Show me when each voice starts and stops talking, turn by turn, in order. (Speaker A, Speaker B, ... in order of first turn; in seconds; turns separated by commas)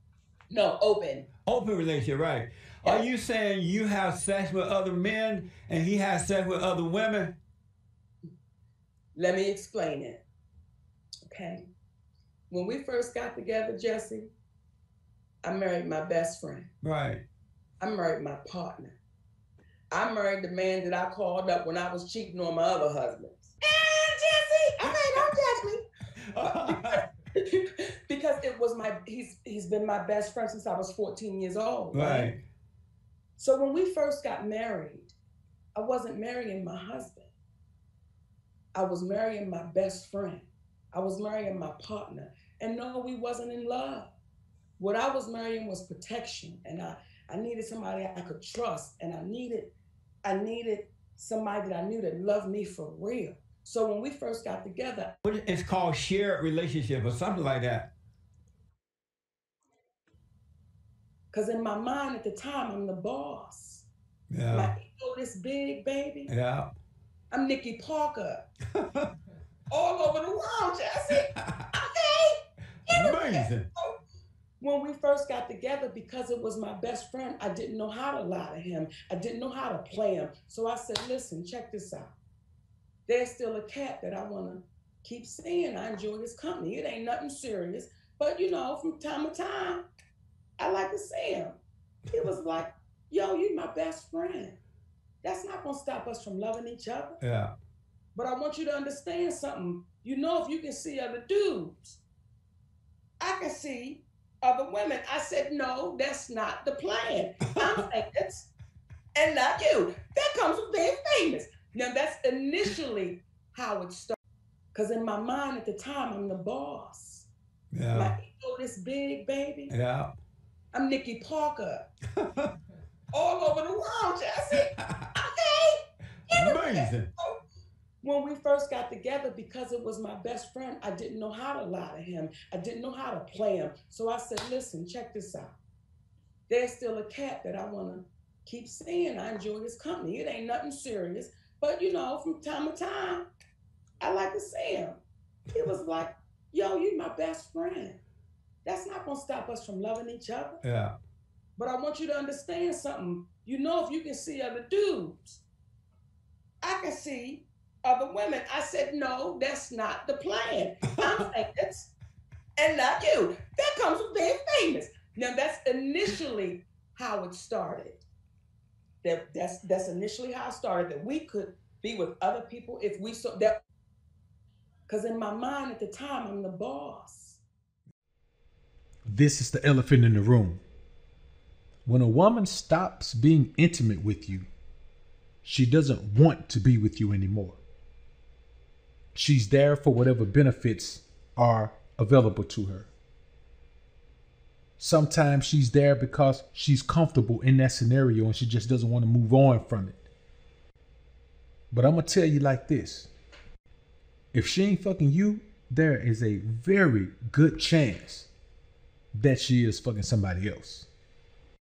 Speaker A: 0.5-1.3, Speaker B: 1.4-7.3, Speaker A: 9.1-10.2, Speaker A: 11.3-11.7, Speaker A: 12.5-14.3, Speaker A: 15.4-16.7, Speaker B: 16.8-17.2, Speaker A: 17.8-19.0, Speaker A: 19.9-25.8, Speaker B: 24.9-25.2, Speaker B: 26.3-27.0, Speaker A: 26.4-32.3, Speaker B: 31.9-32.4, Speaker A: 33.4-35.1, Speaker A: 35.7-37.3, Speaker A: 38.7-44.1, Speaker A: 44.8-49.7, Speaker A: 50.2-55.1, Speaker B: 55.2-57.9, Speaker A: 61.3-63.9, Speaker B: 64.3-64.7, Speaker A: 64.5-66.3, Speaker B: 66.3-66.7, Speaker A: 67.3-68.4, Speaker B: 68.7-69.1, Speaker A: 69.7-73.9, Speaker B: 72.9-73.7, Speaker A: 74.6-82.1, Speaker A: 83.1-89.8, Speaker A: 90.6-91.6, Speaker A: 92.1-94.6, Speaker A: 95.2-97.2, Speaker B: 97.2-97.5, Speaker A: 98.1-102.0, Speaker A: 103.2-108.5, Speaker A: 109.1-114.2, Speaker A: 114.7-117.3, Speaker B: 117.7-118.1, Speaker A: 117.9-119.7, Speaker B: 119.7-120.1, Speaker A: 120.7-121.8, Speaker B: 122.2-122.5, Speaker A: 123.1-127.3, Speaker B: 126.3-127.1, Speaker A: 128.0-135.5, Speaker A: 136.5-143.2, Speaker A: 144.0-145.0, Speaker A: 145.5-148.0, Speaker A: 148.6-150.6, Speaker B: 150.6-150.9, Speaker A: 151.6-155.4, Speaker A: 156.6-161.9, Speaker A: 162.6-168.0, Speaker A: 169.0-173.6, Speaker A: 174.9-177.4, Speaker C: 179.1-180.6, Speaker C: 181.8-184.5, Speaker C: 185.4-187.6, Speaker C: 189.1-192.9, Speaker C: 194.8-200.0, Speaker C: 201.7-203.1, Speaker C: 204.3-208.3, Speaker C: 209.1-210.9